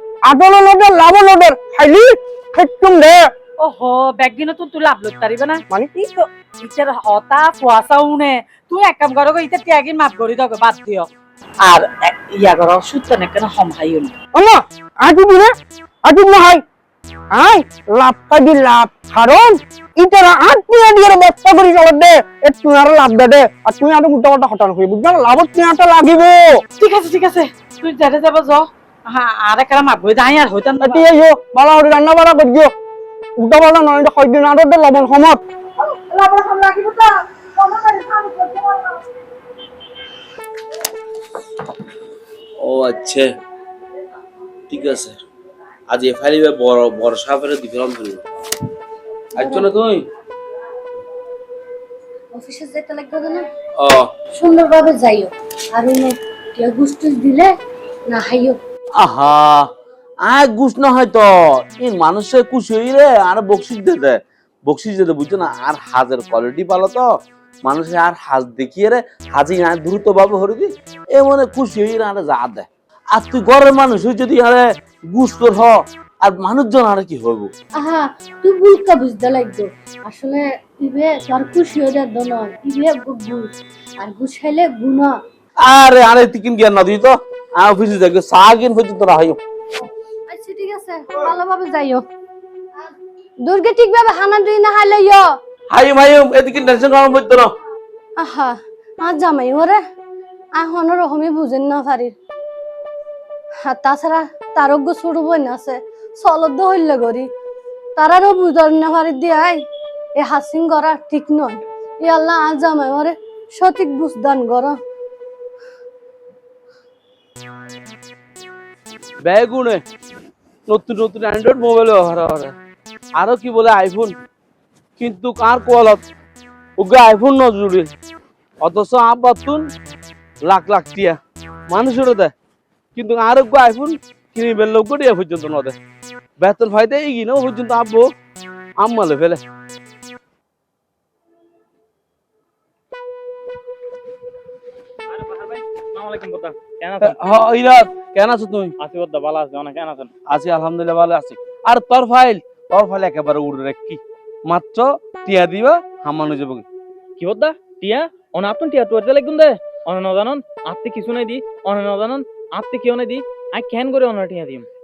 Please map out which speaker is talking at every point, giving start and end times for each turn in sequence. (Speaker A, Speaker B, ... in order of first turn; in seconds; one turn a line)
Speaker A: 0.3-3.2
Speaker B: 3.6-11.1
Speaker B: 11.6-14.1
Speaker A: 14.3-16.6
Speaker A: 17.3-26.6
Speaker B: 26.8-31.0
Speaker A: 30.8-32.7
Speaker A: 33.4-35.4
Speaker B: 35.8-39.0
Speaker C: 42.6-43.2
Speaker C: 44.7-45.2
Speaker C: 45.9-48.2
Speaker C: 49.4-50.0
Speaker D: 49.4-49.6
Speaker D: 52.3-53.5
Speaker D: 54.4-57.5
Speaker D: 58.1-58.6
Speaker C: 59.0-59.7
Speaker C: 60.2-67.1
Speaker C: 67.7-77.5
Speaker D: 77.8-85.2
Speaker C: 85.7-89.4
Speaker D: 90.3-92.0
Speaker D: 93.4-95.3
Speaker C: 95.7-97.5
Speaker D: 98.2-99.8
Speaker D: 100.6-102.1
Speaker D: 103.6-107.3
Speaker D: 108.0-109.6
Speaker D: 110.2-114.8
Speaker C: 119.2-119.8
Speaker C: 120.7-122.5
Speaker C: 123.2-124.1
Speaker C: 125.0-126.0
Speaker C: 126.8-127.9
Speaker C: 128.6-129.6
Speaker C: 130.5-131.2
Speaker C: 131.7-132.3
Speaker C: 132.9-135.8
Speaker C: 136.4-138.1
Speaker C: 138.8-139.4
Speaker E: 145.1-147.2
Speaker C: 147.0-148.7
Speaker E: 148.8-150.1
Speaker C: 150.3-156.7
Speaker E: 157.2-164.7